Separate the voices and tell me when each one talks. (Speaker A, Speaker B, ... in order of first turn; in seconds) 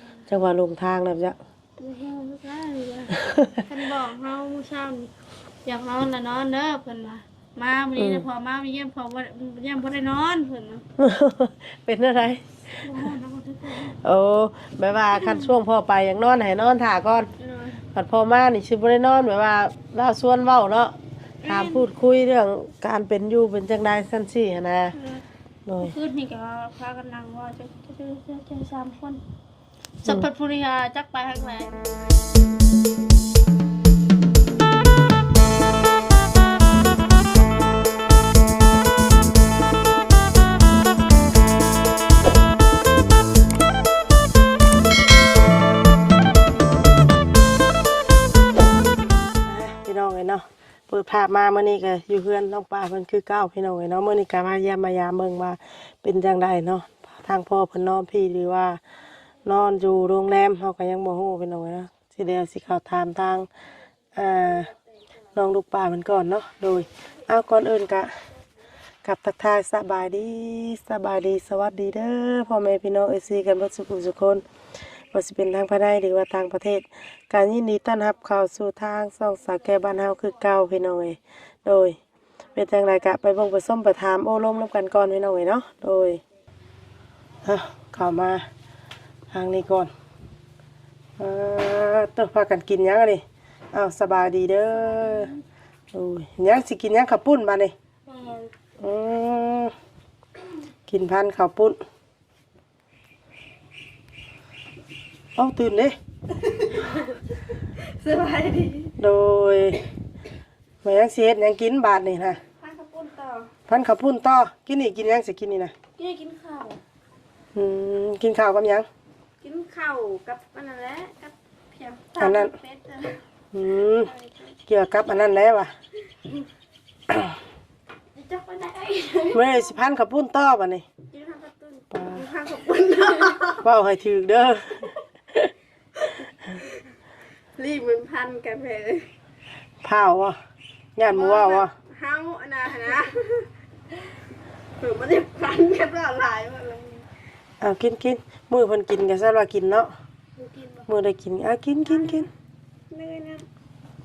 Speaker A: 0.3-1.4, 3.2-3.6, 8.0-8.3, 11.0-13.1, 13.8-17.3, 17.9-20.9, 21.5-24.9, 25.7-25.9, 49.4-58.8, 59.5-63.5, 64.1-64.7, 65.3-68.1, 69.0-74.4, 75.1-82.0, 82.5-86.2, 87.4-88.5, 89.3-89.9, 91.2-95.3, 95.9-97.7, 98.8-99.7, 100.9-101.8, 105.4-106.0, 109.0-109.8, 110.8-112.4, 113.7-115.7, 117.5-118.9, 122.2-122.5, 123.5-124.1, 124.7-125.7, 129.3-130.8, 131.9-132.3, 133.6-134.9, 139.8-140.4, 141.0-141.7, 147.6-149.9, 150.9-152.3
Speaker B: 1.8-3.1, 3.6-5.1, 5.7-10.8, 12.8-13.9, 15.1-15.6, 17.4-17.8, 21.4-21.9, 24.9-25.2, 25.8-29.2, 30.1-31.8, 94.7-95.4, 98.1-98.5, 106.5-107.2, 107.8-108.9, 112.5-113.5, 116.0-116.8, 119.4-124.5, 128.2-129.7, 131.1-133.6, 136.0-136.8, 137.6-139.1, 141.1-144.0, 144.8-147.1, 150.4-150.8, 151.9-152.3, 152.9-153.5